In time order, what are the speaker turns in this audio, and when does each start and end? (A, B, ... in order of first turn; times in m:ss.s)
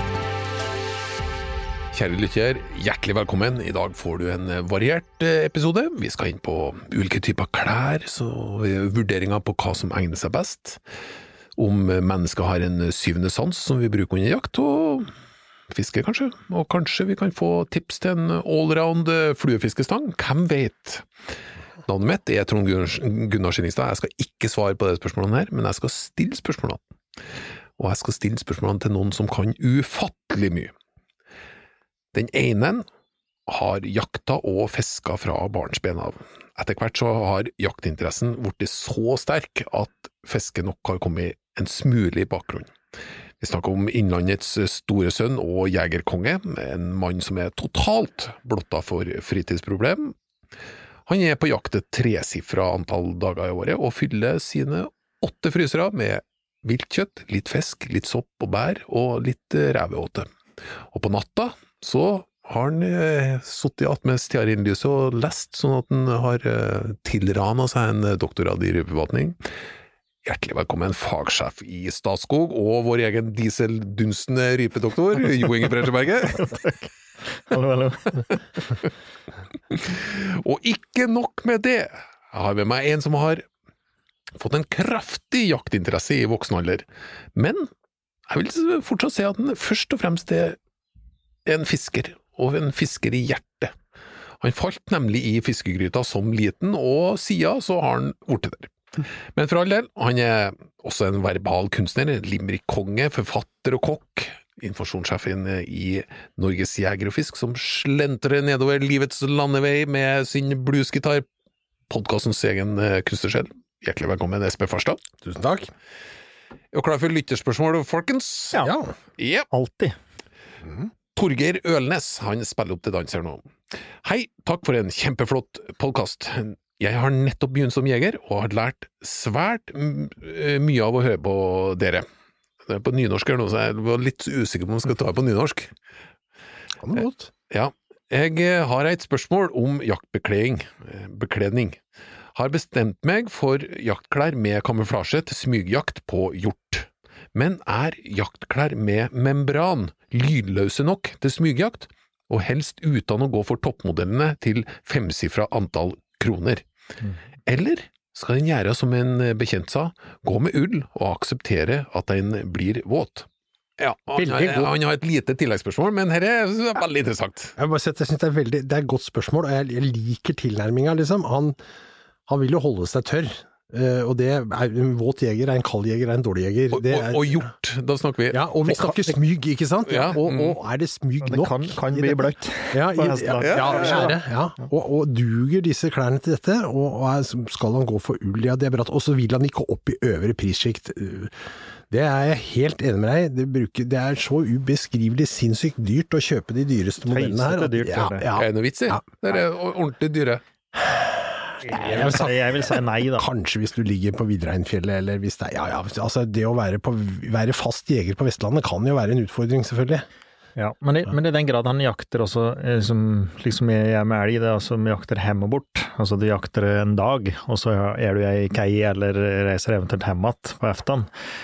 0:01.9-0:10.8 A
0:11.6-0:15.1 A
0:15.7-0:21.1 A
0:21.9-0:26.8 A
0:27.8-0:30.7 A
0:32.1-0:32.8 A
0:33.5-0:42.7 A
0:43.4-0:50.2 A
0:51.0-1:00.3 A
1:00.9-1:09.4 A
1:10.2-1:16.5 A
1:16.4-1:16.9 B
1:17.4-1:18.4 B
1:19.7-1:23.4 A
1:24.4-1:27.7 A
1:28.3-1:30.6 A
1:31.5-1:33.8 A
1:34.4-1:51.2 A
1:51.9-1:55.0 A
1:55.2-1:55.7 C
1:56.7-1:58.6 A
1:58.6-1:58.9 C
1:59.2-1:59.5 A
1:59.5-2:00.0 B
2:00.6-2:00.9 C
2:01.2-2:12.1 A
2:12.7-2:15.7 A
2:16.8-2:17.3 C
2:17.5-2:21.8 A
2:22.3-2:36.6 A
2:37.5-2:43.3 A
2:43.8-2:47.6 A
2:44.2-2:44.7 C
2:47.6-2:51.6 C
2:52.3-2:57.5 C
2:56.7-2:58.4 A
2:58.3-3:11.3 C
2:58.7-2:59.0 B
2:59.9-3:00.6 A
3:01.2-3:04.2 B
3:03.4-3:04.1 A
3:11.9-3:19.0 C
3:17.1-3:18.3 B
3:18.4-3:20.4 A
3:20.8-3:30.1 C
3:21.6-3:23.3 B
3:30.6-3:41.1 B